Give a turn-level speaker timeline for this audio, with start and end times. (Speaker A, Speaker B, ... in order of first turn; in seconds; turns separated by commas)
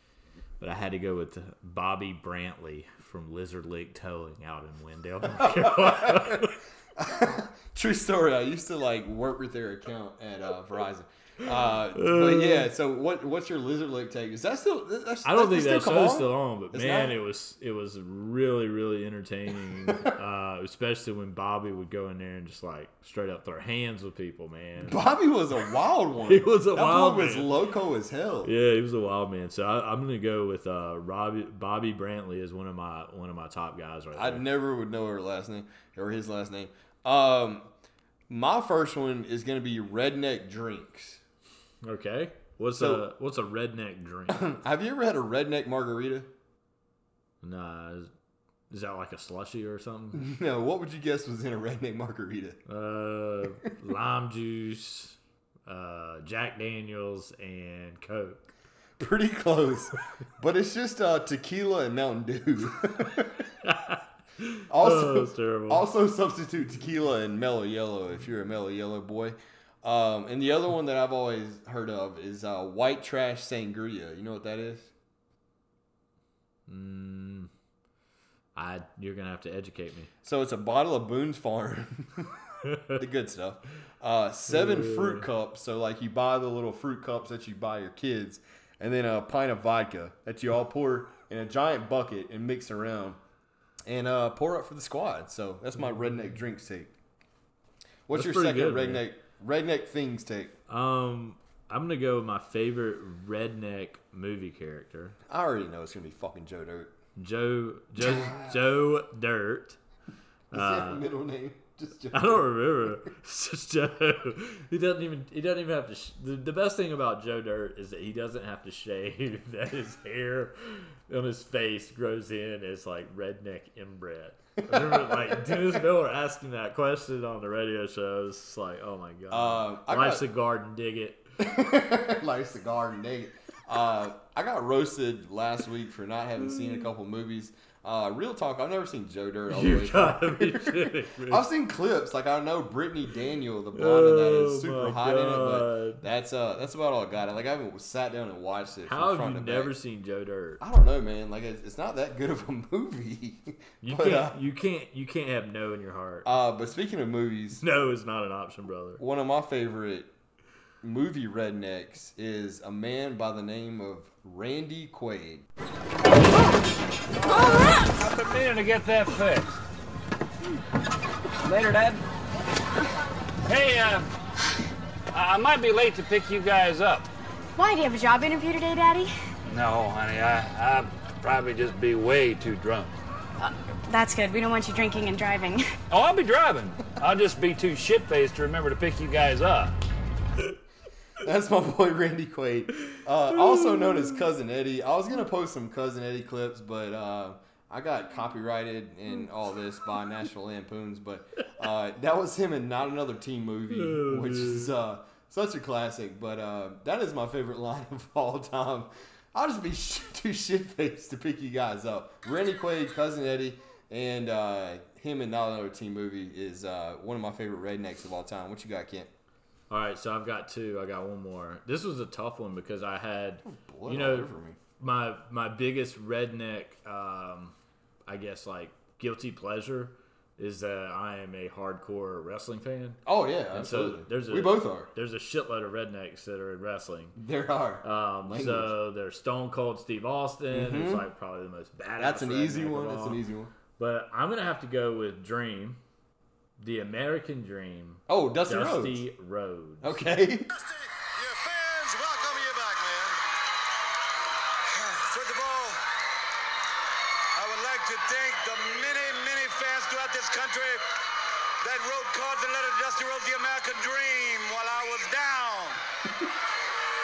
Speaker A: 0.6-6.6, Speaker B: 5.4-17.2, Speaker A: 11.9-12.7, Speaker A: 15.2-25.0, Speaker B: 19.9-20.1, Speaker B: 24.8-28.5, Speaker A: 26.2-27.5, Speaker A: 28.4-34.5, Speaker B: 34.1-37.7, Speaker B: 38.3-41.2, Speaker A: 41.8-44.5, Speaker B: 42.8-43.1, Speaker B: 44.3-46.3, Speaker A: 47.4-48.1, Speaker A: 48.7-50.3, Speaker B: 50.1-52.6, Speaker A: 52.7-58.5, Speaker B: 59.0-63.4, Speaker A: 63.6-65.9, Speaker B: 64.7-74.9, Speaker A: 76.7-77.5, Speaker A: 78.5-80.1, Speaker B: 80.2-82.3, Speaker A: 82.6-83.0, Speaker B: 83.0-93.2, Speaker A: 84.5-85.3, Speaker B: 93.9-96.9, Speaker B: 98.1-100.5, Speaker A: 98.1-99.1, Speaker A: 100.7-105.2, Speaker B: 105.3-106.9, Speaker A: 107.2-109.8, Speaker B: 108.0-108.4, Speaker A: 110.5-111.0, Speaker B: 110.5-112.9, Speaker A: 112.1-131.3, Speaker B: 124.6-125.8, Speaker B: 129.3-130.3, Speaker B: 131.4-149.8, Speaker A: 139.5-141.5, Speaker A: 143.7-146.0, Speaker A: 148.9-150.6, Speaker B: 150.6-154.4, Speaker A: 153.8-156.3, Speaker B: 156.2-157.6, Speaker A: 157.6-159.0, Speaker B: 159.0-160.1, Speaker B: 160.8-165.5, Speaker C: 167.2-169.6, Speaker C: 171.4-172.0, Speaker C: 173.5-174.1, Speaker C: 175.1-177.1, Speaker D: 177.6-179.1, Speaker C: 179.5-182.9, Speaker D: 183.9-185.6, Speaker C: 185.9-189.8, Speaker B: 191.2-219.1, Speaker A: 193.5-194.2, Speaker A: 203.7-204.7, Speaker A: 219.7-227.6, Speaker B: 223.5-224.6, Speaker A: 228.1-233.0, Speaker B: 233.1-234.9, Speaker A: 233.5-237.2, Speaker B: 237.2-238.8, Speaker A: 237.8-243.2, Speaker B: 240.5-241.1, Speaker B: 242.0-243.5, Speaker A: 243.8-245.8, Speaker A: 246.6-250.0, Speaker B: 248.1-249.1, Speaker B: 249.8-250.5, Speaker E: 250.6-253.1, Speaker E: 254.7-255.8, Speaker E: 257.4-260.8, Speaker E: 261.6-265.8